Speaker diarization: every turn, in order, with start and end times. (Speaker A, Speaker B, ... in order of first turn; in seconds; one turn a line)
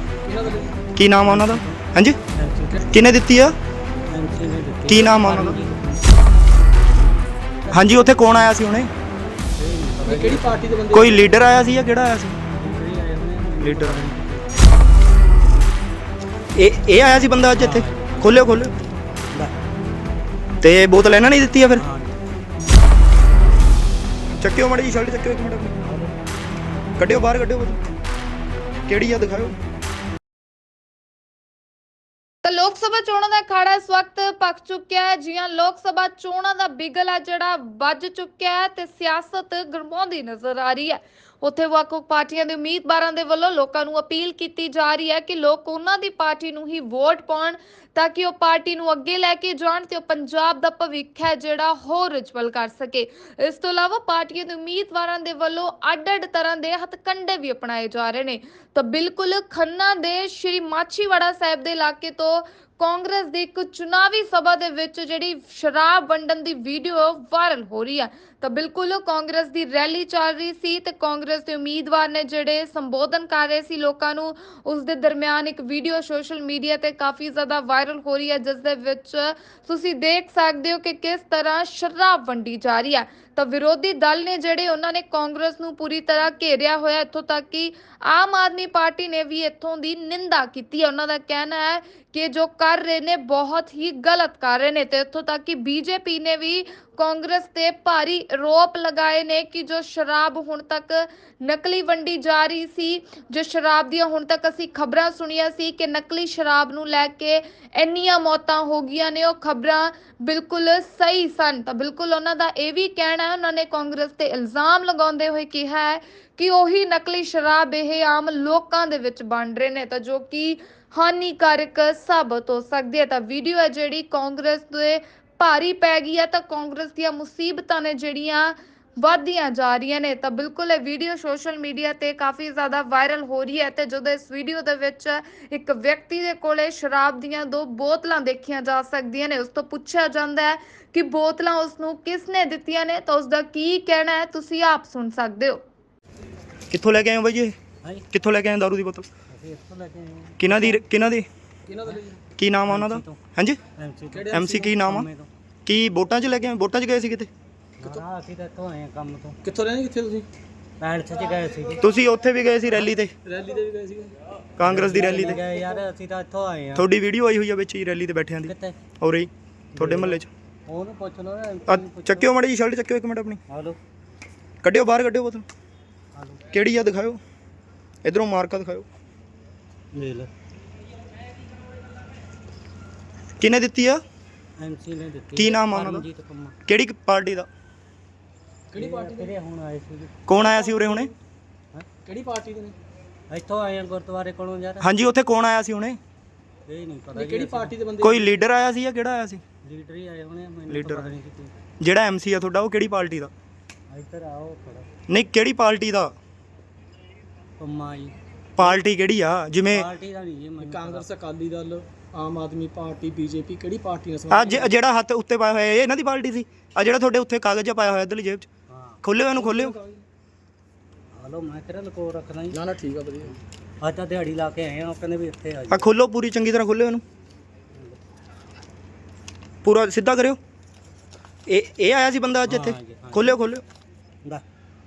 Speaker A: 0.2-0.8
Speaker B: 0.9-2.2
Speaker C: 1.2-2.9
Speaker B: 2.9-3.5
Speaker C: 4.1-6.2
Speaker B: 4.9-5.6
Speaker C: 7.6-8.3
Speaker B: 7.7-8.9
Speaker C: 9.6-10.7
Speaker A: 10.0-11.3
Speaker B: 10.9-12.4
Speaker C: 12.5-14.8
Speaker B: 13.6-14.0
Speaker B: 16.6-18.7
Speaker C: 17.6-18.3
Speaker B: 20.6-21.9
Speaker C: 21.8-22.1
Speaker B: 24.4-25.8
Speaker C: 25.8-26.1
Speaker B: 27.0-27.8
Speaker B: 28.9-29.5
Speaker D: 32.4-145.6
Speaker B: 146.7-147.5
Speaker C: 147.8-148.1
Speaker B: 148.1-149.1
Speaker C: 149.3-150.8
Speaker B: 150.4-151.3
Speaker A: 151.7-152.2
Speaker B: 152.4-153.6
Speaker C: 152.7-153.2
Speaker C: 153.8-155.3
Speaker A: 154.1-154.8
Speaker B: 154.3-155.1
Speaker B: 155.7-157.3
Speaker C: 157.8-159.4
Speaker A: 159.4-160.3
Speaker C: 160.8-161.8
Speaker B: 161.8-163.1
Speaker A: 163.2-164.1
Speaker B: 164.6-165.4
Speaker C: 164.6-166.9
Speaker B: 166.7-170.3
Speaker C: 168.4-168.8
Speaker C: 169.7-172.3
Speaker B: 171.7-173.4
Speaker C: 173.5-173.8
Speaker B: 174.6-175.4
Speaker C: 176.1-176.5
Speaker B: 176.5-177.2
Speaker B: 178.0-178.8
Speaker C: 179.9-180.3
Speaker B: 183.4-184.0
Speaker C: 184.6-186.6
Speaker B: 185.3-186.1
Speaker B: 186.7-187.5
Speaker A: 188.7-189.3
Speaker C: 188.7-190.2
Speaker B: 190.3-191.1
Speaker A: 190.3-191.1
Speaker A: 192.0-192.7
Speaker C: 193.3-194.9
Speaker B: 194.8-196.0
Speaker C: 196.7-197.8
Speaker A: 197.1-198.3
Speaker B: 198.0-199.4
Speaker C: 199.6-201.6
Speaker B: 200.7-201.1
Speaker B: 201.8-203.3
Speaker C: 203.9-204.9
Speaker B: 205.1-206.1
Speaker C: 207.6-208.2
Speaker B: 208.6-209.9
Speaker C: 209.6-211.1
Speaker A: 210.6-214.7
Speaker B: 214.3-218.5
Speaker C: 218.7-219.0
Speaker B: 219.0-219.7
Speaker A: 219.3-220.0
Speaker C: 221.1-222.6
Speaker A: 222.5-223.4
Speaker C: 223.8-225.9
Speaker B: 225.7-227.0
Speaker B: 229.6-230.4
Speaker B: 231.5-233.6
Speaker C: 232.4-233.4